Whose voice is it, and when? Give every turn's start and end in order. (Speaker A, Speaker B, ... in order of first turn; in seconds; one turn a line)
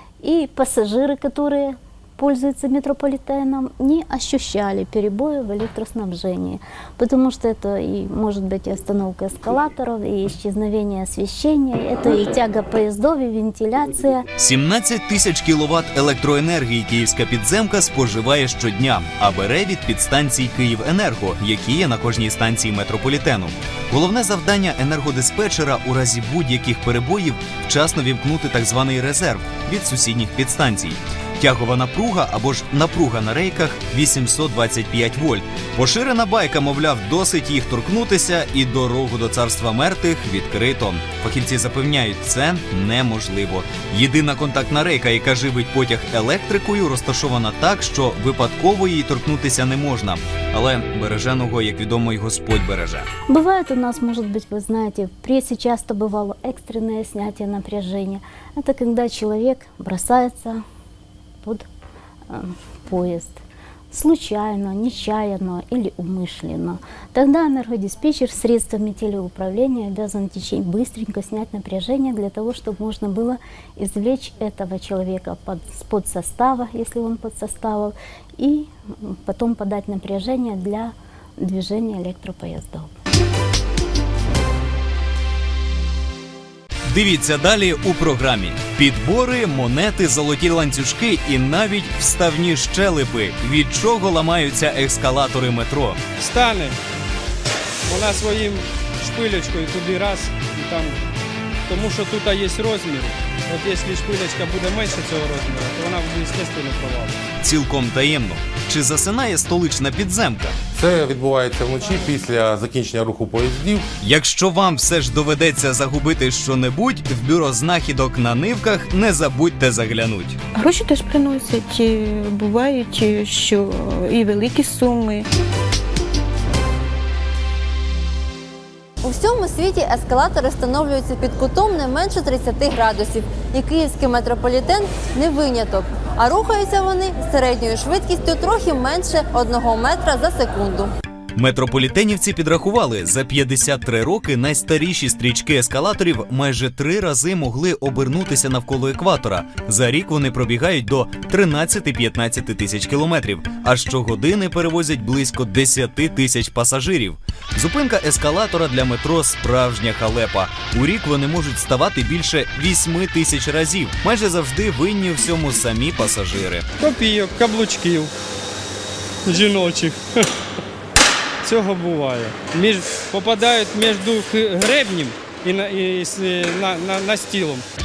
Speaker A: 0.2-14.2
Speaker B: 14.4-53.1
Speaker A: 53.3-60.6
Speaker A: 62.3-63.4
Speaker A: 63.9-82.9
Speaker B: 86.9-96.0
Speaker C: 96.2-96.8
Speaker C: 97.9-101.0
Speaker C: 101.7-107.2
Speaker B: 107.4-110.6
Speaker D: 110.8-113.8
Speaker B: 114.0-120.4
Speaker E: 120.6-125.3
Speaker F: 129.0-140.9
Speaker B: 141.4-166.7
Speaker C: 166.8-168.1
Speaker C: 169.2-170.0
Speaker C: 171.4-177.7